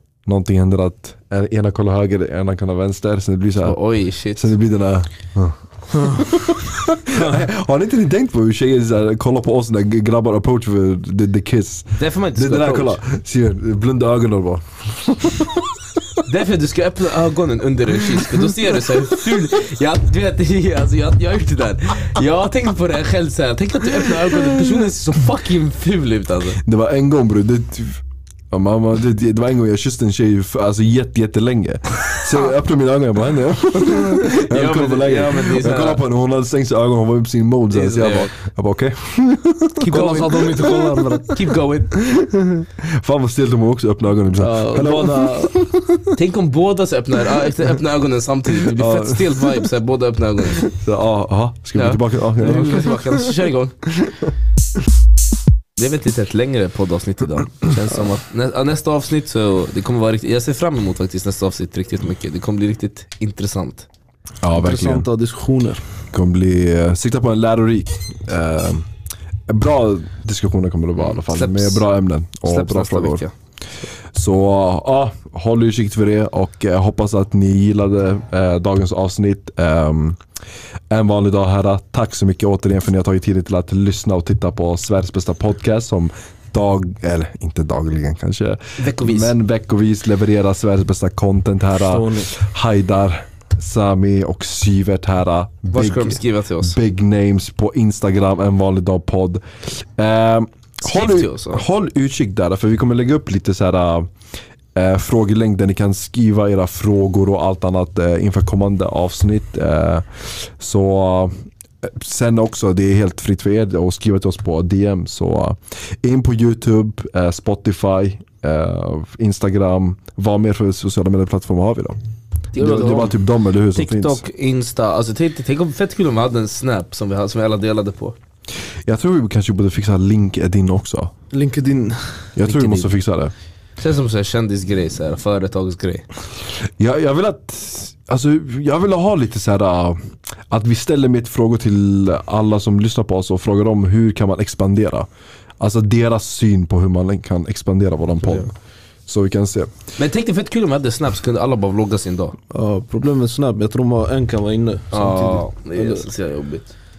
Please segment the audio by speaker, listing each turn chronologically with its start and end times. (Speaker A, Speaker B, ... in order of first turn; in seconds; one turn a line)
Speaker A: 0.3-3.8
Speaker B: 3.6-4.5
Speaker A: 4.4-15.7
Speaker C: 6.0-6.2
Speaker B: 12.0-13.0
Speaker B: 16.3-26.6
Speaker A: 26.6-40.1
Speaker B: 33.8-36.0
Speaker B: 37.7-38.3
Speaker B: 39.8-42.0
Speaker C: 39.9-41.4
Speaker A: 42.0-46.1
Speaker C: 44.4-45.5
Speaker B: 46.1-50.7
Speaker A: 48.7-49.5
Speaker A: 50.6-53.0
Speaker B: 51.8-53.8
Speaker B: 55.8-63.9
Speaker A: 64.4-65.1
Speaker C: 64.6-65.8
Speaker A: 66.1-68.9
Speaker A: 69.5-73.2
Speaker B: 71.0-71.8
Speaker B: 72.5-73.3
Speaker A: 74.1-80.2
Speaker A: 80.9-104.1
Speaker B: 88.8-89.3
Speaker C: 91.9-92.3
Speaker B: 95.7-96.8
Speaker B: 100.8-101.6
Speaker A: 104.8-122.0
Speaker B: 122.5-123.2
Speaker A: 122.6-124.2
Speaker B: 123.8-128.2
Speaker A: 128.9-131.1
Speaker C: 131.3-132.2
Speaker A: 132.4-133.3
Speaker B: 132.4-132.9
Speaker B: 133.8-136.1
Speaker A: 136.8-140.0
Speaker A: 140.5-145.1
Speaker A: 145.6-148.5
Speaker A: 149.1-149.7
Speaker B: 150.0-152.4
Speaker C: 152.5-156.1
Speaker B: 154.9-156.7